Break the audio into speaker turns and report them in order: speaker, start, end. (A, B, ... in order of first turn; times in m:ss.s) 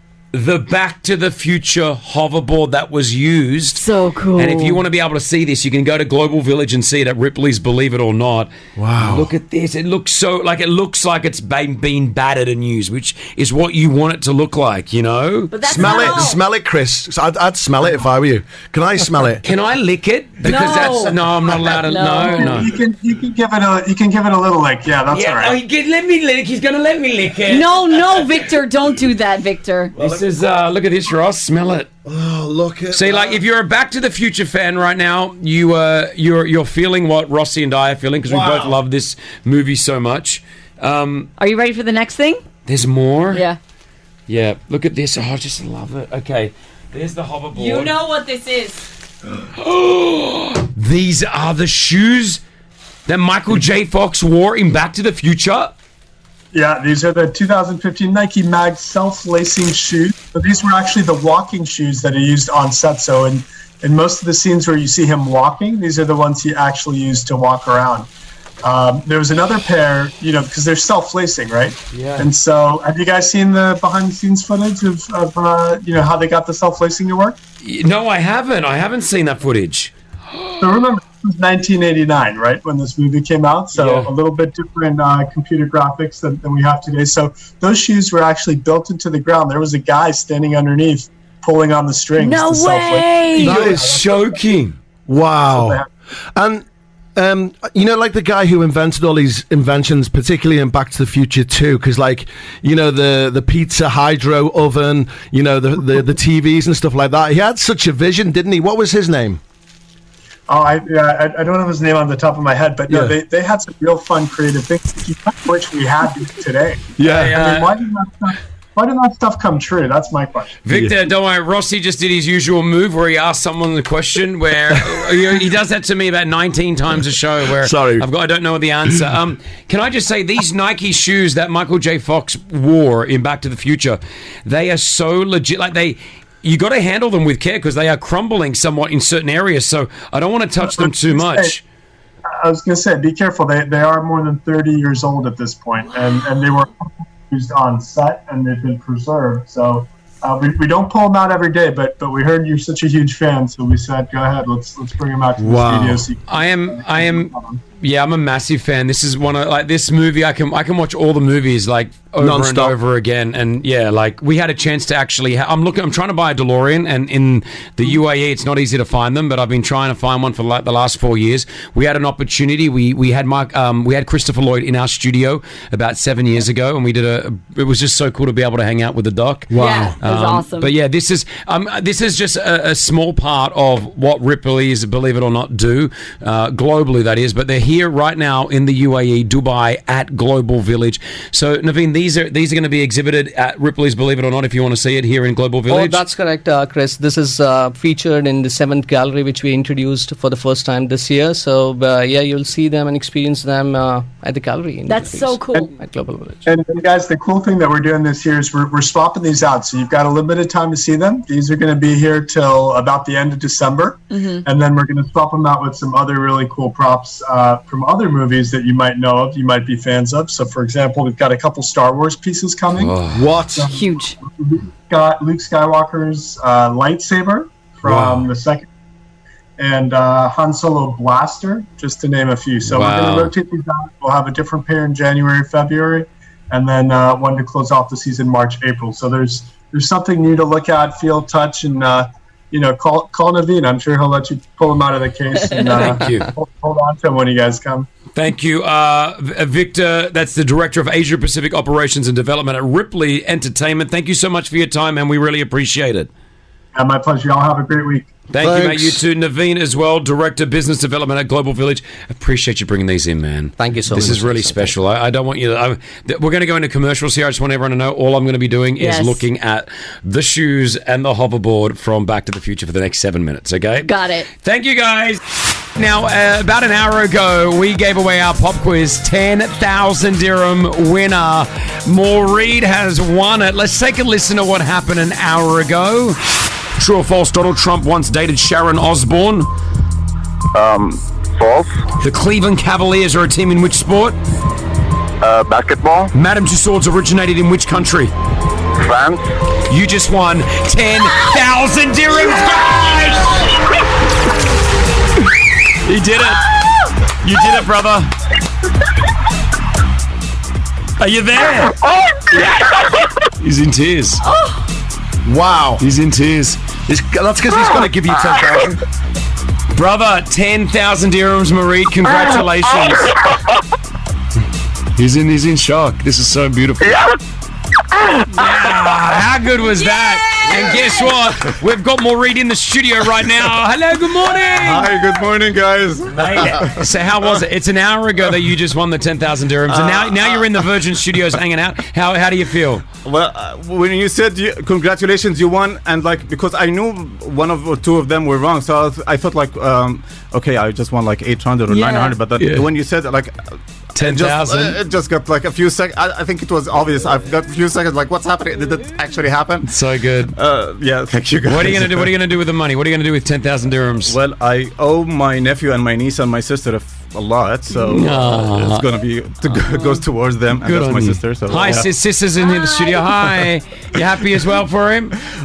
0:00.3-0:03.8 A
0:03.7-0:04.8 B
0:04.4-0:16.2 A
0:08.8-0:09.3 C
0:15.5-0:16.4 B
0:15.7-0:19.4 C
0:19.4-0:22.8 A
0:20.4-0:21.1 B
0:21.7-0:22.6 B
0:22.3-0:25.6 D
0:25.1-0:27.9 A
0:27.5-0:29.9 B
0:30.0-0:30.3 C
0:30.0-0:31.9 A
0:32.0-0:33.4 C
0:32.9-0:41.3 A
0:38.2-0:38.8 C
0:41.4-0:42.4 B
0:42.6-0:43.4 A
0:43.3-0:43.6 B
0:44.3-0:47.9 A
0:47.5-0:48.8 B
0:49.5-0:52.4 A
0:53.1-0:55.7 A
0:56.5-1:08.1 D
1:08.6-1:17.4 D
1:11.9-1:12.3 A
1:17.6-1:19.9 A
1:20.6-1:34.4 D
1:23.7-1:24.1 A
1:32.2-1:33.6 B
1:33.3-1:34.8 A
1:33.4-1:34.0 C
1:35.1-1:35.8 C
1:35.5-1:35.8 D
1:36.3-1:36.6 C
1:37.2-1:49.4 C
1:50.5-2:00.6 D
1:52.9-1:53.1 C
1:57.0-1:57.4 C
1:57.0-1:57.8 A
2:00.6-2:21.6 A
2:00.7-2:00.9 C
2:07.5-2:08.0 C
2:20.6-2:21.5 D
2:22.3-2:37.6 D
2:35.4-2:36.0 C
2:36.3-2:59.5 A
2:42.2-2:42.8 C
2:59.5-3:00.0 C
2:59.6-3:00.7 B
3:00.0-3:16.0 A
3:15.7-3:26.4 E
3:24.9-3:25.7 B
3:26.4-3:43.0 D
3:34.1-3:34.4 B
3:42.7-3:43.3 A
3:43.1-3:43.7 C
3:43.6-3:48.7 D
3:43.6-3:44.2 B
3:47.8-3:48.3 A
3:49.6-4:07.9 D
3:52.6-3:53.3 A
4:05.7-4:06.3 A
4:08.1-4:16.1 A
4:16.7-4:18.1 D
4:18.3-4:33.9 A
4:18.4-4:19.0 C
4:23.6-4:24.8 E
4:28.8-4:29.2 B
4:33.8-4:34.3 B
4:34.4-4:35.2 A
4:35.8-4:46.2 A
4:46.8-4:49.5 A
4:50.5-4:51.7 F
4:52.0-4:54.2 A
4:55.2-4:56.1 F
4:56.1-4:58.1 A
4:58.8-4:59.2 F
4:59.7-5:03.5 A
5:05.8-5:06.6 A
5:07.2-5:08.1 A
5:11.0-5:11.8 A
5:13.4-5:14.2 A
5:14.2-5:14.6 B
5:15.2-5:15.8 C
5:15.8-5:16.6 A
5:16.9-5:18.8 C
5:19.7-5:23.2 A
5:24.9-5:27.0 A
5:28.3-5:34.9 A
5:34.5-5:36.8 G
5:36.1-5:42.8 A
5:39.7-5:40.6 G
5:43.0-5:59.7 G
5:51.7-5:52.2 B
5:52.4-5:52.7 A
5:53.9-5:54.8 A
5:59.6-6:00.3 A
6:00.4-6:02.1 G
6:01.4-6:04.2 A
6:04.0-6:11.9 G
6:07.8-6:08.9 A
6:10.5-6:15.2 A